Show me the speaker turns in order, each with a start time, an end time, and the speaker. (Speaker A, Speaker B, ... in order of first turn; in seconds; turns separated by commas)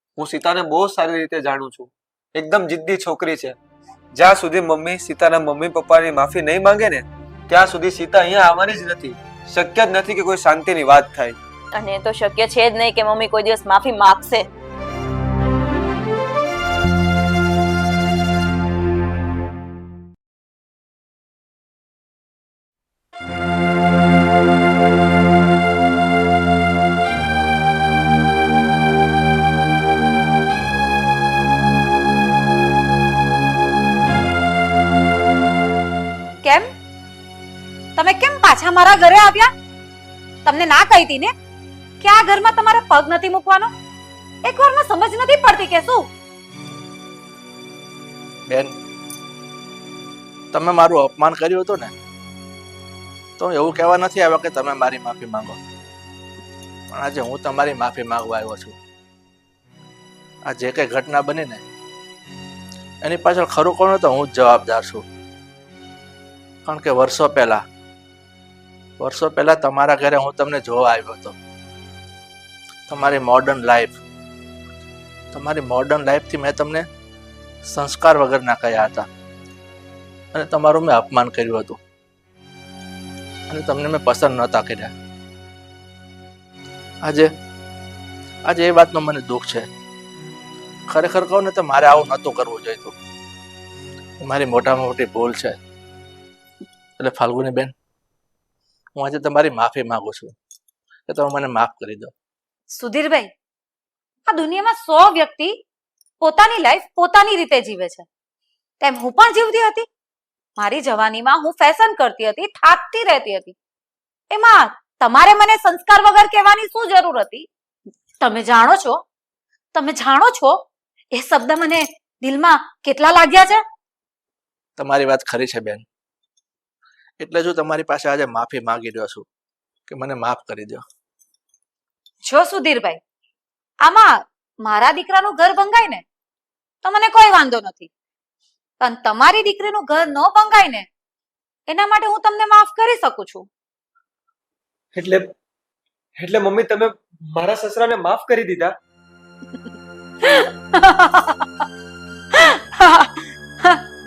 Speaker A: 0.2-3.5, Speaker A: 4.1-11.3, Speaker B: 11.7-14.4, Speaker C: 36.4-36.7, Speaker C: 38.0-39.5, Speaker C: 40.4-41.3, Speaker C: 42.0-43.7, Speaker C: 44.4-46.1, Speaker D: 48.5-48.8, Speaker D: 50.5-51.9, Speaker D: 53.4-55.6, Speaker D: 56.9-58.8, Speaker D: 60.5-61.6, Speaker D: 63.0-65.0, Speaker D: 66.6-67.6, Speaker D: 69.0-71.3, Speaker D: 72.9-74.0, Speaker D: 75.3-76.9, Speaker D: 77.6-79.1, Speaker D: 80.3-81.8, Speaker D: 83.5-84.9, Speaker D: 87.0-87.3, Speaker D: 88.5-89.7, Speaker D: 90.9-92.9, Speaker D: 94.2-95.6, Speaker D: 97.0-97.7, Speaker D: 99.0-100.3, Speaker D: 101.1-102.1, Speaker C: 102.8-103.3, Speaker C: 104.3-105.5, Speaker C: 106.2-108.1, Speaker C: 108.8-109.9, Speaker C: 110.6-113.5, Speaker C: 114.3-117.5, Speaker C: 118.2-119.0, Speaker C: 119.7-120.6, Speaker C: 121.1-123.6, Speaker D: 124.8-125.8, Speaker D: 127.2-129.2, Speaker D: 129.9-130.8, Speaker C: 132.2-133.0, Speaker C: 133.8-136.0, Speaker C: 136.8-137.9, Speaker C: 138.8-140.9, Speaker C: 141.7-143.5, Speaker A: 144.9-145.3, Speaker A: 146.2-148.7, Speaker C: 150.2-151.6, Speaker C: 152.3-153.8